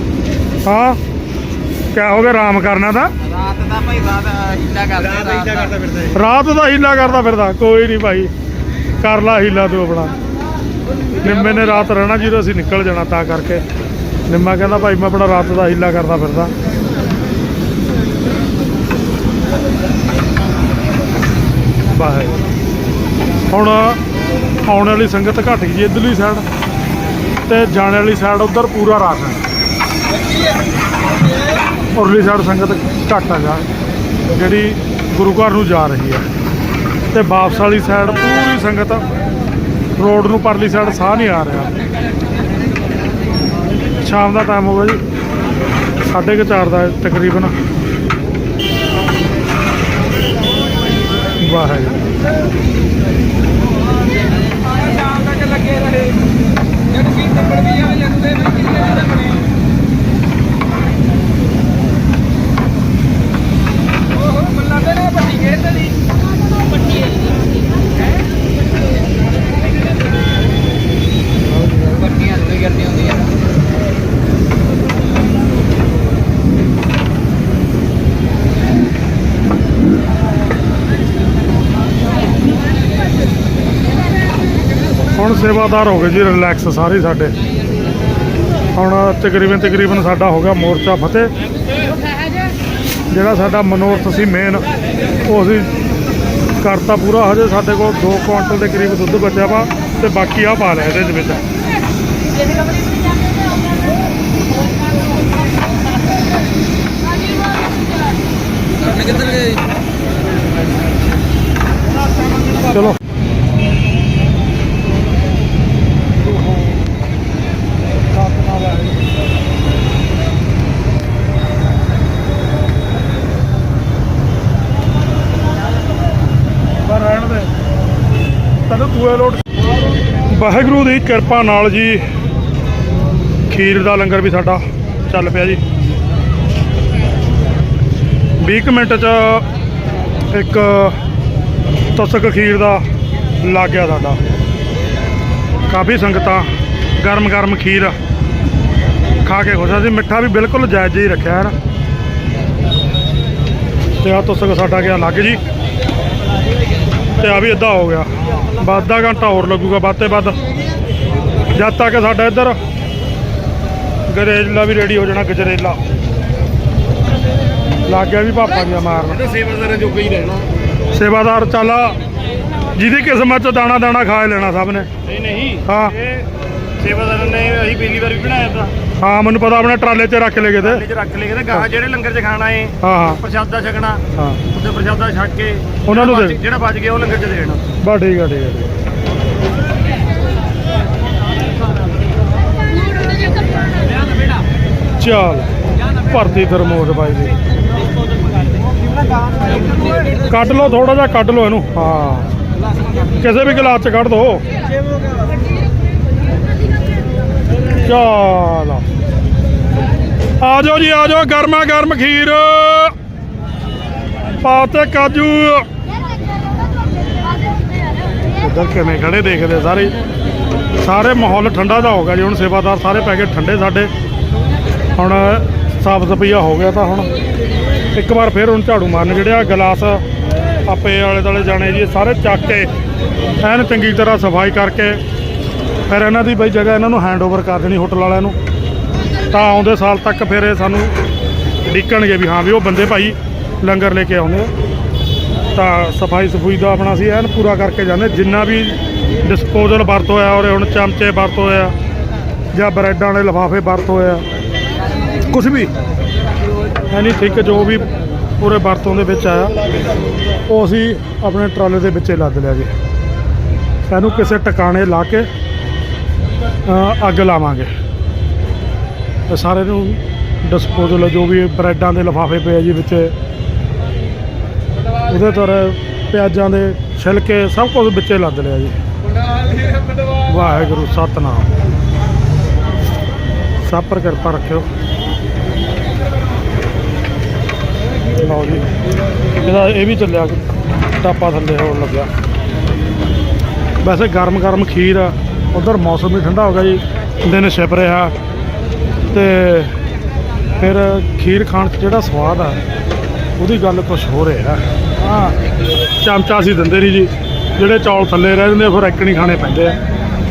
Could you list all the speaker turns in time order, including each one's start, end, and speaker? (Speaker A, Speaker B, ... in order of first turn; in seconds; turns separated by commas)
Speaker A: 0.6-1.0, Speaker A: 1.9-3.1, Speaker B: 3.5-5.7, Speaker A: 6.1-8.3, Speaker A: 9.0-10.1, Speaker A: 11.2-13.6, Speaker A: 14.3-16.5, Speaker A: 21.9-22.4, Speaker A: 23.5-24.0, Speaker A: 24.6-26.4, Speaker A: 27.5-29.4, Speaker A: 31.9-33.6, Speaker A: 34.3-36.2, Speaker A: 37.1-39.0, Speaker A: 40.0-41.7, Speaker A: 44.0-45.0, Speaker A: 46.1-47.5, Speaker A: 51.4-52.0, Speaker B: 54.7-56.2, Speaker B: 56.9-59.4, Speaker B: 64.1-65.9, Speaker B: 72.3-73.2, Speaker A: 85.2-87.3, Speaker A: 88.8-91.3, Speaker A: 93.1-94.6, Speaker A: 95.2-95.7, Speaker A: 96.6-101.4, Speaker A: 112.7-113.0, Speaker A: 118.1-119.0, Speaker A: 126.8-127.5, Speaker A: 128.7-129.4, Speaker A: 130.3-132.1, Speaker A: 133.5-135.6, Speaker A: 138.4-139.4, Speaker A: 140.3-141.0, Speaker A: 141.9-142.8, Speaker A: 143.4-144.2, Speaker A: 145.7-146.5, Speaker A: 147.0-147.9, Speaker A: 149.2-151.5, Speaker A: 154.0-155.4, Speaker A: 157.2-160.4, Speaker A: 161.5-162.6, Speaker A: 164.1-165.8, Speaker A: 167.9-169.3, Speaker C: 169.2-170.4, Speaker A: 170.9-172.0, Speaker A: 172.7-174.9, Speaker C: 175.1-176.2, Speaker A: 175.7-175.9, Speaker C: 176.8-178.7, Speaker A: 179.0-180.8, Speaker C: 180.5-187.6, Speaker A: 182.8-183.2, Speaker A: 185.8-186.4, Speaker A: 187.8-188.7, Speaker A: 195.0-195.5, Speaker A: 196.1-197.3, Speaker A: 200.3-202.3, Speaker A: 203.2-204.4, Speaker A: 207.8-208.8, Speaker A: 210.4-212.9, Speaker A: 214.4-215.7, Speaker A: 218.4-219.9, Speaker A: 220.8-223.9, Speaker A: 224.9-227.1, Speaker A: 227.9-230.0, Speaker A: 230.7-232.7, Speaker A: 233.4-235.0, Speaker A: 235.9-238.4, Speaker A: 239.3-240.9, Speaker A: 241.7-244.5, Speaker A: 245.6-251.7, Speaker A: 252.5-254.2, Speaker A: 255.3-255.7, Speaker A: 256.9-257.9, Speaker A: 258.4-259.6, Speaker A: 260.5-262.7, Speaker A: 263.9-265.3, Speaker A: 266.6-267.7, Speaker A: 269.3-273.1, Speaker A: 275.1-278.8, Speaker A: 280.3-281.5, Speaker A: 283.6-284.7, Speaker A: 288.2-288.7, Speaker A: 289.4-290.4, Speaker A: 291.0-292.1, Speaker A: 293.8-298.1, Speaker A: 299.1-299.7, Speaker A: 300.6-302.6, Speaker A: 303.4-305.3, Speaker A: 306.0-309.8